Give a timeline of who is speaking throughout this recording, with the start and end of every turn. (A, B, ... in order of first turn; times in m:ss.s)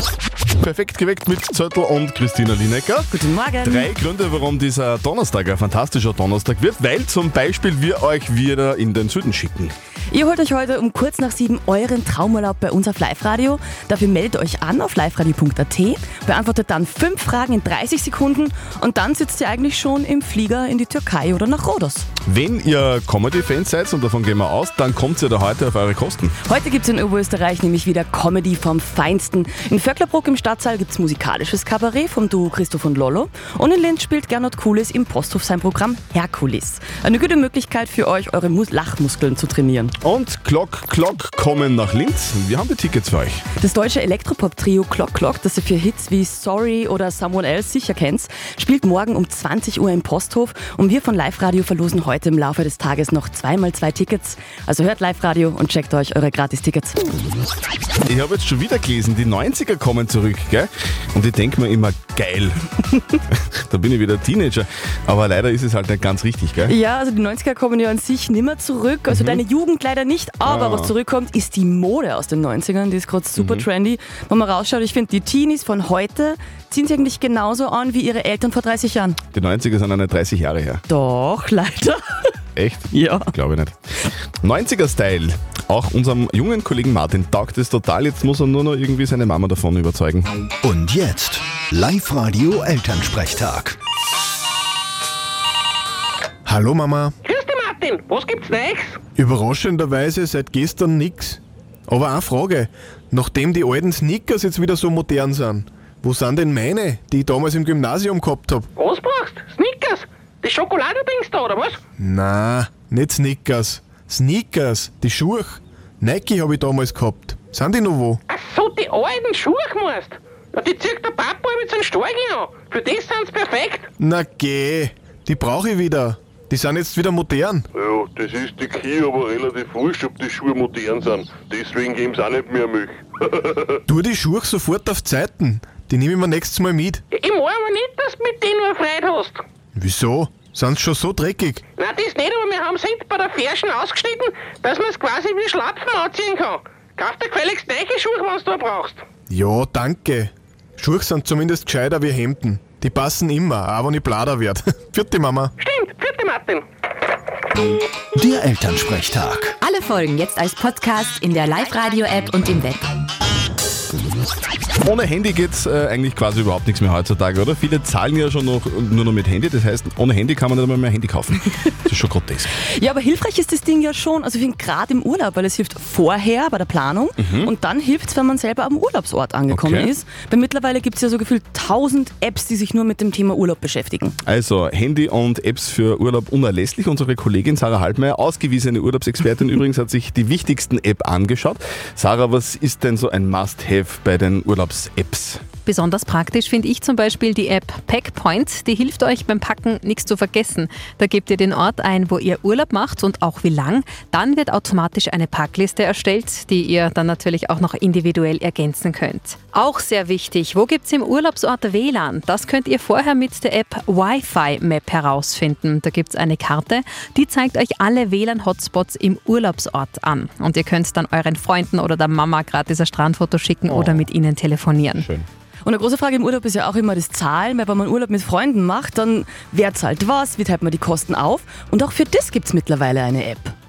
0:00.6-0:03.1 A
0:03.1-0:03.9 B
0:03.6-0:09.7 A
0:10.1-0:22.1 B
0:22.2-0:26.3 A
0:26.4-0:39.9 B
0:40.0-0:43.4 A
0:43.6-0:57.0 B
0:58.0-1:02.7 A
1:03.3-1:06.8 A
1:06.7-1:19.2 B
1:09.1-1:09.4 A
1:10.4-1:10.9 A
1:13.4-1:13.6 A
1:19.3-1:20.8 A
1:20.9-1:22.2 B
1:22.6-1:23.7 A
1:22.9-1:23.3 B
1:24.4-1:30.3 A
1:30.6-1:33.8 C
1:36.4-1:37.1 D
1:37.2-1:39.0 E
1:39.2-1:48.7 D
1:48.8-1:51.8 E
1:52.0-1:58.2 D
1:58.3-2:03.9 E
2:04.0-2:07.6 D
2:07.9-2:12.8 F
2:08.0-2:12.9 E
2:13.9-2:17.0 D
2:17.1-2:19.4 E
2:19.8-2:21.6 D
2:21.8-2:29.0 E
2:29.3-2:35.5 D
2:35.6-2:36.6 E
2:38.2-2:39.6 C
2:39.6-2:42.9 G
2:44.8-2:52.5 A
2:52.7-3:04.2 B
2:57.2-2:57.5 A
2:59.5-2:59.9 A
3:04.2-3:15.4 A
3:15.6-3:45.1 H
3:43.7-3:44.0 A
3:44.9-3:45.2 A
3:45.6-3:53.5 B